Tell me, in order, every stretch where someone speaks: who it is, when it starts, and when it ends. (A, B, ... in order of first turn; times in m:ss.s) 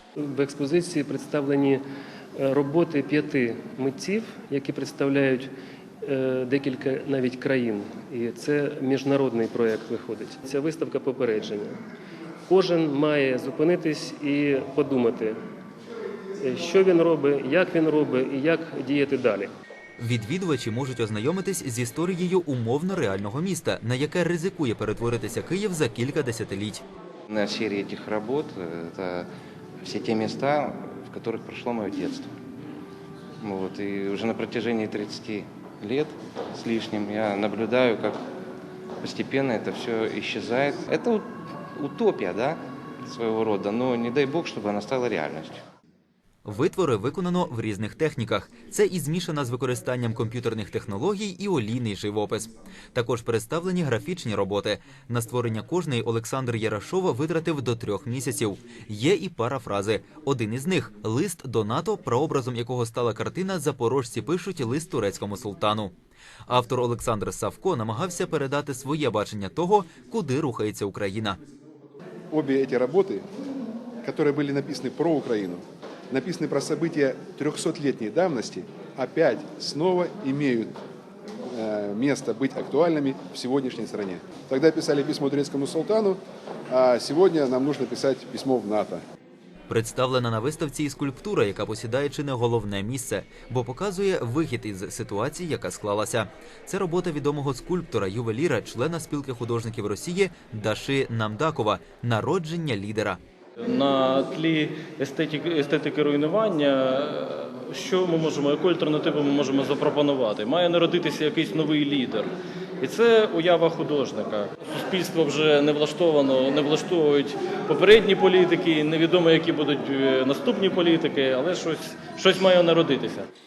0:00.2-0:01.8 A
0:02.4-0:05.5 A
0:06.0-0:11.8 A
0:12.5-0:15.4 A
0:16.4-0:19.5 A
0:20.0-0:26.8 B
0:27.3-0:29.3 C
0:29.8-0:32.4 C
0:33.4-0:38.2 C
0:39.0-0:45.6 C
0:46.4-1:05.9 B
1:06.5-1:11.4 B
1:12.3-1:13.2 D
1:14.0-1:20.7 D
1:21.5-1:29.0 D
1:29.7-1:43.2 B
1:43.6-2:03.3 E